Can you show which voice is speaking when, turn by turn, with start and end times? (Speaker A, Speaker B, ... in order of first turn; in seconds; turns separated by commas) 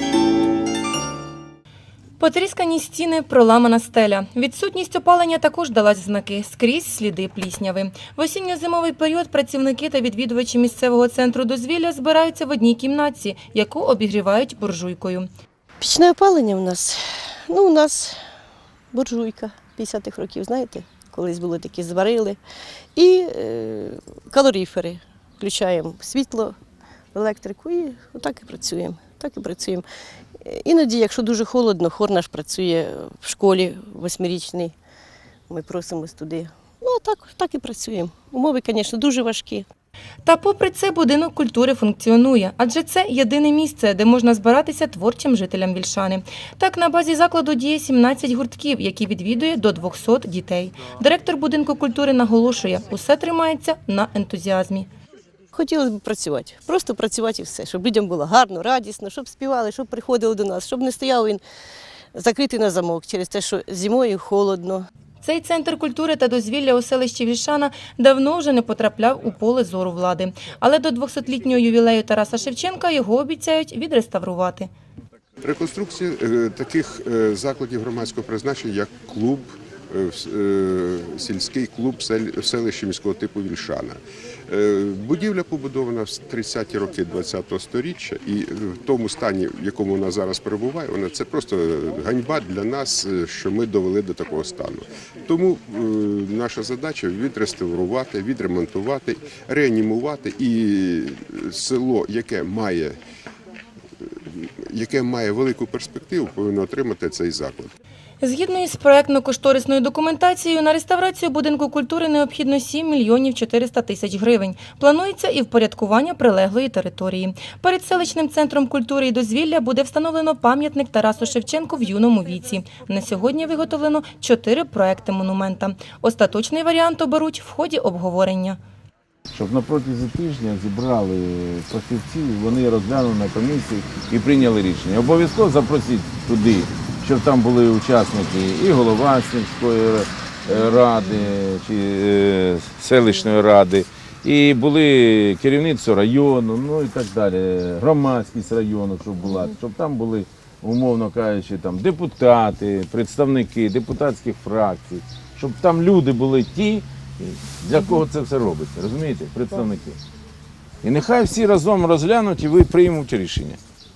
Speaker A: 2.2-15.3, Speaker B: 15.8-18.2, Speaker B: 18.9-22.4, Speaker B: 22.9-26.6, Speaker B: 27.1-29.8, Speaker B: 30.4-34.7, Speaker B: 35.5-39.7, Speaker A: 40.2-54.9, Speaker B: 55.5-61.4, Speaker B: 62.1-64.8, Speaker A: 65.2-74.7, Speaker C: 75.4-103.0, Speaker C: 104.1-107.7, Speaker A: 108.2-128.6, Speaker D: 129.3-160.0, Speaker D: 160.8-163.6